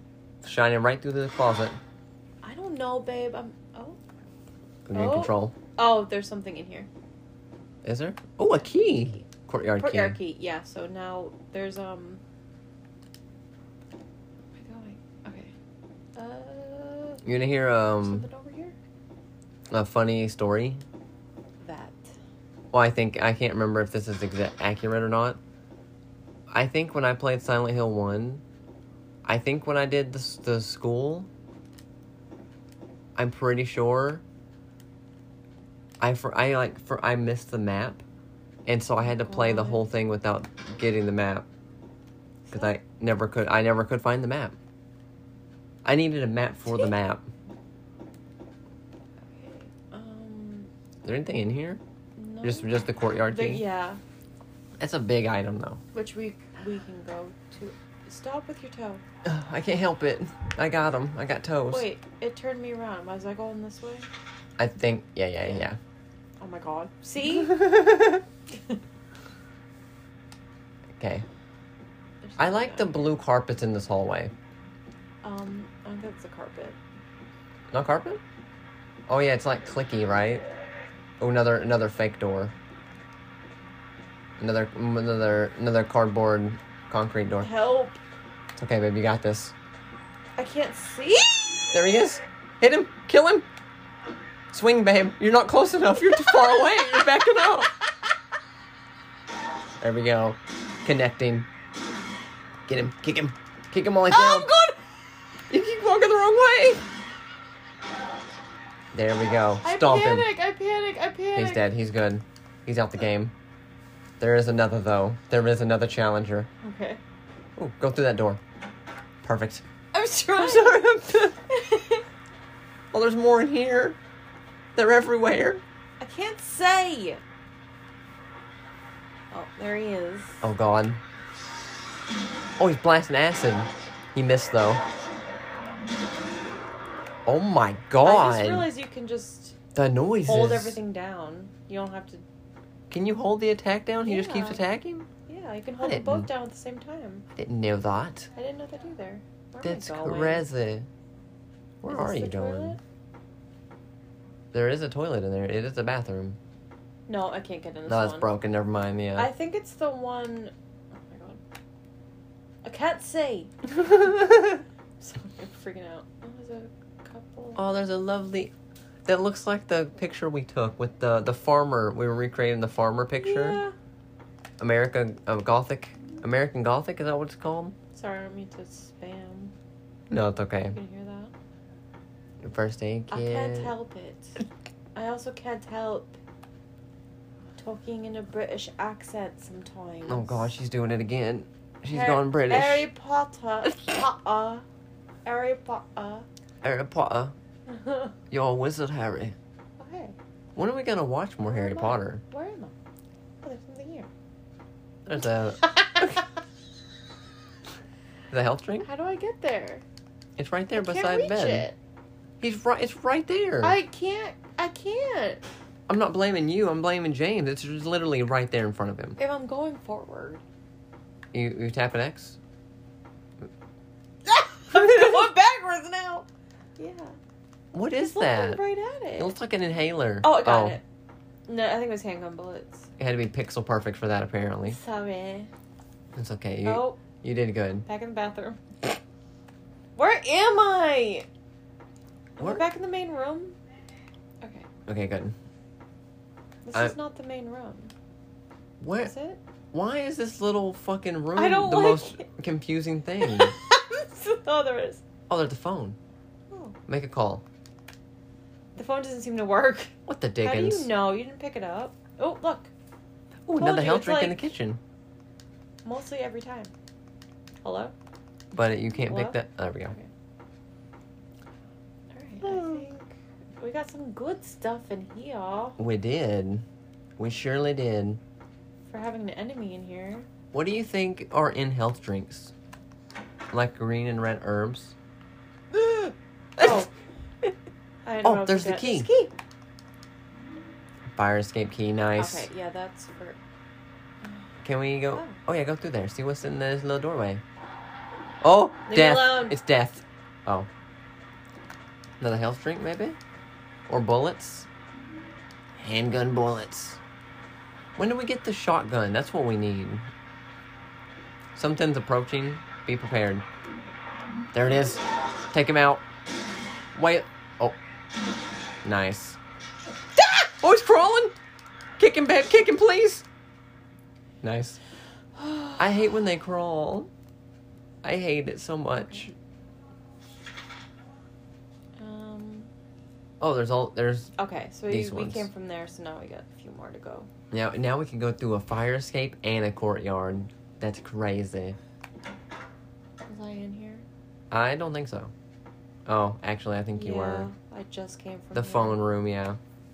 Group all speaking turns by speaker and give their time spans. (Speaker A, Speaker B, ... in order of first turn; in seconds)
Speaker A: 0.4-1.8, 4.9-5.5, 7.8-10.2, 17.2-18.3, 19.7-20.8, 22.7-25.4, 26.5-28.4, 29.2-31.3, 33.2-34.2, 36.0-38.0, 38.7-41.5, 42.5-44.6, 45.8-47.3, 51.0-51.8, 52.4-53.6, 54.8-55.8, 59.2-61.9, 64.6-65.8, 67.3-68.2, 71.0-71.3, 72.4-74.3, 77.7-78.2, 79.1-80.5, 81.2-82.5, 84.4-87.5, 88.6-89.5, 91.7-93.5, 94.5-97.7, 99.8-101.5, 102.7-104.5, 105.5-106.8, 108.9-110.3, 111.3-113.3, 114.2-116.5, 117.6-118.4, 119.2-119.6, 120.4-121.3, 122.9-124.0, 124.8-125.6, 130.4-131.0, 132.6-134.8, 137.3-138.7, 139.7-140.8, 142.9-145.1, 145.8-146.3, 147.4-148.3, 149.6-150.9, 151.8-152.8, 154.5-156.4, 157.9-159.3, 167.6-168.5, 169.1-173.6, 174.6-177.8, 180.1-180.8, 182.4-183.7, 190.1-192.9, 196.6-197.3, 198.3-199.4, 200.6-202.2, 205.1-206.2, 208.3-208.9, 210.4-211.7, 212.4-213.8, 215.9-219.2, 221.3-222.4, 224.7-225.3, 227.7-228.6, 229.2-230.8, 233.0-234.8, 236.2-237.9, 242.4-242.7, 244.9-245.3, 248.8-249.1, 249.7-253.6, 255.3-256.0, 256.9-257.4, 260.1-260.9, 263.5-264.8, 268.5-270.0, 272.4-272.9, 275.8-276.7, 277.2-278.2, 280.5-282.5, 283.5-284.9, 286.6-286.9, 288.2-289.1, 291.1-292.5, 294.6-297.4, 298.4-300.7, 302.2-303.2, 303.9-304.7, 305.8-307.0, 308.0-310.1, 311.6-313.5, 314.5-316.0, 316.9-317.8, 318.8-319.4, 320.6-321.4, 322.0-323.2, 324.4-324.8, 325.8-327.1, 328.0-329.3, 333.4-334.4, 334.9-335.5, 337.5-341.8, 344.5-345.3, 346.1-347.5, 348.5-349.6
Speaker B: 2.4-4.0, 4.9-6.9, 8.6-9.2, 9.8-12.2, 14.6-15.5, 16.2-17.2, 18.0-18.8, 21.6-22.1, 39.0-39.9, 42.5-42.8, 49.3-50.7, 52.2-52.7, 53.3-54.0, 55.9-59.0, 61.7-64.1, 66.4-67.7, 68.5-68.8, 72.2-73.2, 75.2-76.8, 87.4-88.0, 90.4-91.5, 96.3-97.1, 104.1-104.8, 109.6-111.6, 116.6-117.0, 119.9-120.8, 121.5-122.0, 126.0-127.2, 129.3-130.4, 138.0-139.6, 140.2-142.2, 144.1-144.6, 145.3-147.3, 148.3-150.5, 151.9-152.8, 157.1-158.3, 159.2-161.4, 162.6-167.6, 173.2-173.8, 177.9-179.5, 180.6-181.3, 183.1-184.4, 184.9-186.2, 187.6-190.5, 191.9-194.7, 195.2-196.3, 197.7-198.1, 199.8-200.2, 201.5-202.7, 203.4-204.1, 205.6-206.2, 208.8-209.8, 210.8-211.8, 213.6-215.4, 219.2-220.4, 224.3-226.3, 226.8-227.2, 228.0-229.3, 230.2-230.8, 231.5-232.9, 234.7-235.5, 236.6-237.0, 237.9-238.9, 240.0-241.3, 242.4-243.6, 244.4-244.7, 246.7-247.9, 249.0-249.4, 251.3-252.3, 253.2-255.0, 256.5-256.8, 258.8-262.7, 263.6-264.4, 265.9-266.7, 267.6-267.9, 269.0-269.4, 272.1-275.8, 278.9-280.3, 286.6-286.9, 288.1-289.3, 292.2-293.4, 295.1-295.4, 298.9-299.6, 325.4-325.9, 329.0-329.3, 332.0-332.7, 334.4-337.3, 343.3-344.1, 346.9-349.0